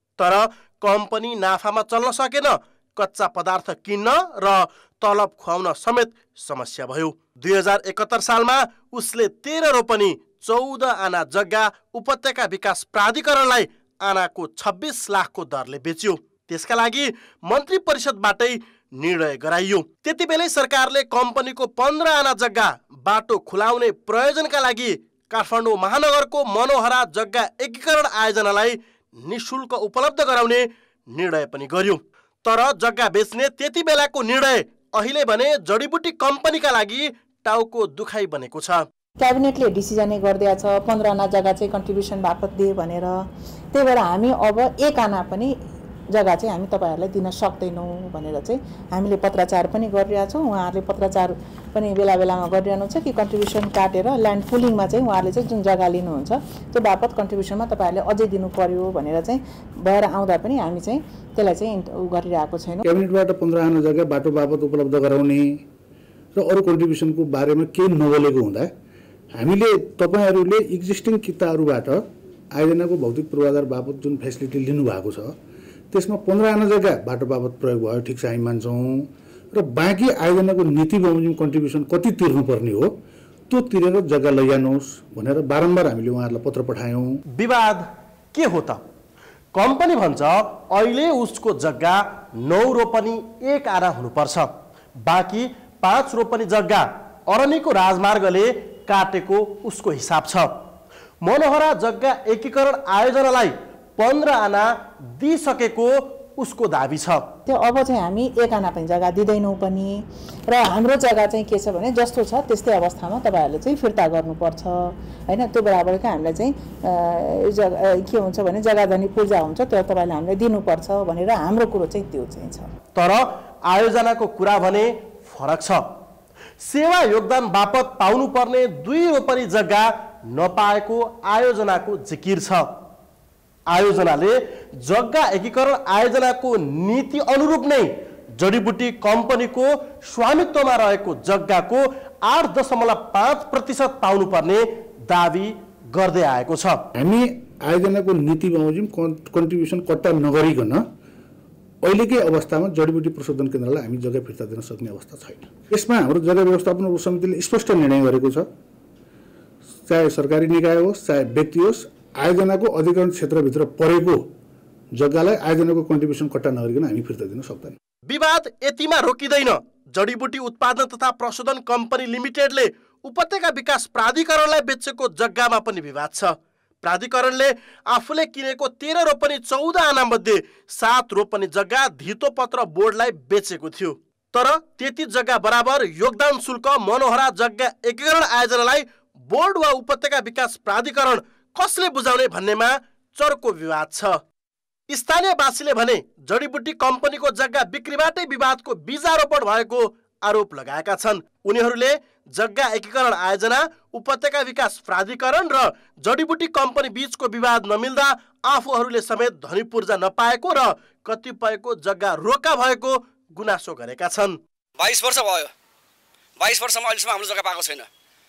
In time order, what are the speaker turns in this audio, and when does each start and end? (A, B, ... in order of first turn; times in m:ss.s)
0:00.2-0:38.8 A
0:39.2-0:43.2 B
0:43.7-0:45.5 B
0:46.1-1:02.8 B
1:02.8-1:05.6 C
1:06.4-1:08.7 C
1:09.4-1:15.4 C
1:15.9-1:23.0 C
1:23.5-1:27.1 C
1:27.4-1:28.8 A
1:29.6-1:40.6 A
1:41.2-1:47.3 A
1:47.5-2:02.7 B
2:03.0-2:05.9 A
2:06.6-2:12.7 A
2:13.7-2:26.8 A
2:27.0-2:30.9 C
2:31.8-2:38.5 C
2:39.9-2:44.3 C
2:45.0-2:47.8 C
2:48.1-3:14.2 A
3:14.9-3:34.4 A
3:34.8-3:35.5 D
3:36.4-3:37.9 D